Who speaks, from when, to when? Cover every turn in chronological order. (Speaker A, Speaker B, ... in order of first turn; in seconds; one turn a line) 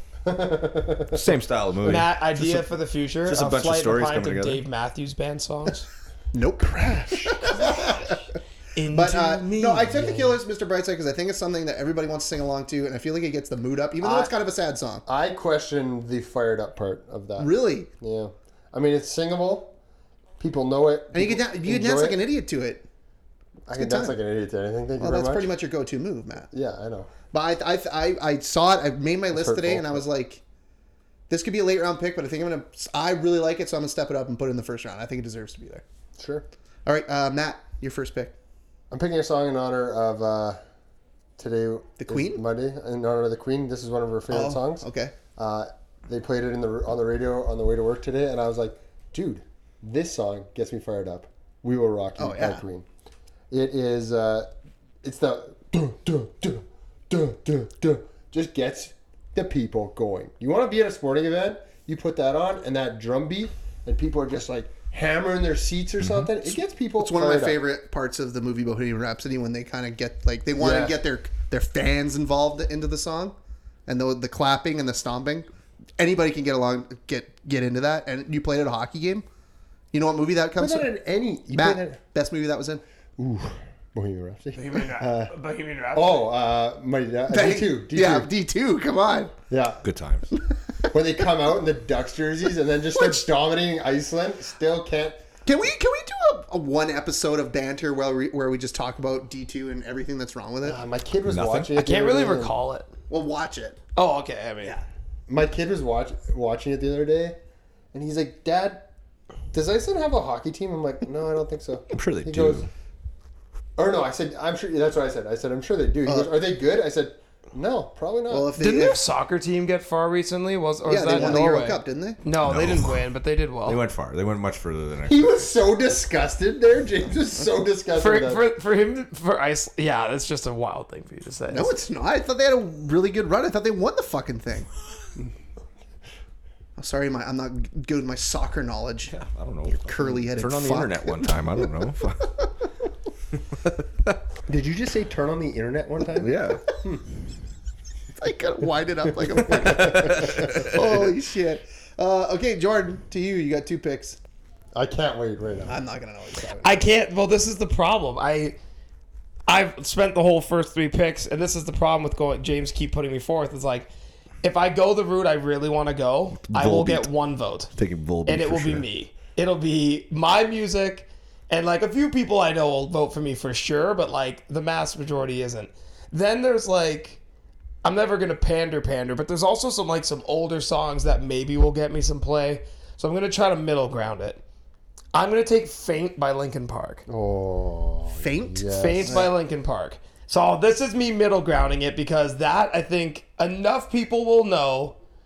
Speaker A: 0.2-1.2
Speaker B: 1.1-2.7
Speaker C: 1.8-5.8
Speaker B: 3.3-4.6
Speaker D: 6.3-8.1
Speaker A: 6.7-7.7
Speaker C: 8.8-10.4
Speaker D: 8.9-15.0
Speaker A: 14.0-14.3
Speaker A: 15.1-19.7
Speaker D: 17.4-17.9
Speaker A: 20.4-22.2
Speaker D: 21.1-22.8
Speaker A: 23.7-25.5
Speaker D: 23.7-24.2
Speaker D: 25.0-26.5
Speaker A: 26.5-27.1
Speaker D: 27.3-30.4
Speaker A: 29.3-30.0
Speaker D: 31.3-35.8
Speaker A: 36.2-36.4
Speaker D: 36.9-38.3
Speaker A: 38.9-40.6
Speaker A: 41.4-52.9
Speaker D: 42.0-42.4
Speaker D: 44.3-45.1
Speaker D: 52.2-52.6
Speaker A: 53.5-54.5
Speaker A: 55.0-67.6
Speaker B: 66.0-66.3
Speaker D: 67.0-73.3
Speaker A: 70.6-70.9
Speaker D: 73.8-75.5
Speaker D: 76.0-79.2
Speaker D: 79.9-80.9
Speaker A: 80.6-82.0
Speaker D: 81.5-82.8
Speaker A: 83.2-85.3
Speaker C: 84.5-86.3
Speaker A: 85.9-88.3
Speaker D: 87.3-89.3
Speaker A: 89.5-89.8
Speaker B: 89.8-90.3
Speaker A: 90.9-95.2
Speaker D: 95.4-100.8
Speaker A: 100.6-102.5
Speaker B: 101.2-101.7
Speaker C: 101.8-102.9
Speaker D: 103.1-103.8
Speaker C: 104.0-104.8
Speaker A: 105.3-107.4
Speaker A: 107.9-108.9
Speaker A: 109.5-112.7
Speaker B: 111.9-112.7
Speaker A: 113.8-118.5
Speaker D: 116.0-116.3
Speaker D: 118.3-119.0
Speaker C: 118.6-123.8
Speaker D: 120.8-122.2
Speaker B: 122.4-123.0
Speaker B: 123.6-125.5
Speaker A: 125.0-128.5
Speaker C: 127.9-131.8
Speaker D: 131.5-134.7
Speaker D: 136.8-139.1
Speaker B: 139.1-142.3
Speaker D: 139.7-141.3
Speaker A: 144.5-147.0
Speaker B: 146.1-146.6
Speaker D: 148.2-154.2
Speaker A: 149.4-150.5
Speaker B: 149.4-151.0
Speaker A: 154.7-155.8
Speaker D: 155.7-156.8
Speaker C: 156.6-158.6
Speaker C: 159.5-163.9
Speaker C: 164.4-167.7
Speaker B: 166.4-167.1
Speaker B: 167.7-168.8
Speaker C: 168.2-177.2
Speaker C: 177.8-184.4
Speaker C: 185.1-187.0
Speaker A: 187.1-189.2
Speaker D: 188.1-189.3
Speaker C: 188.7-194.9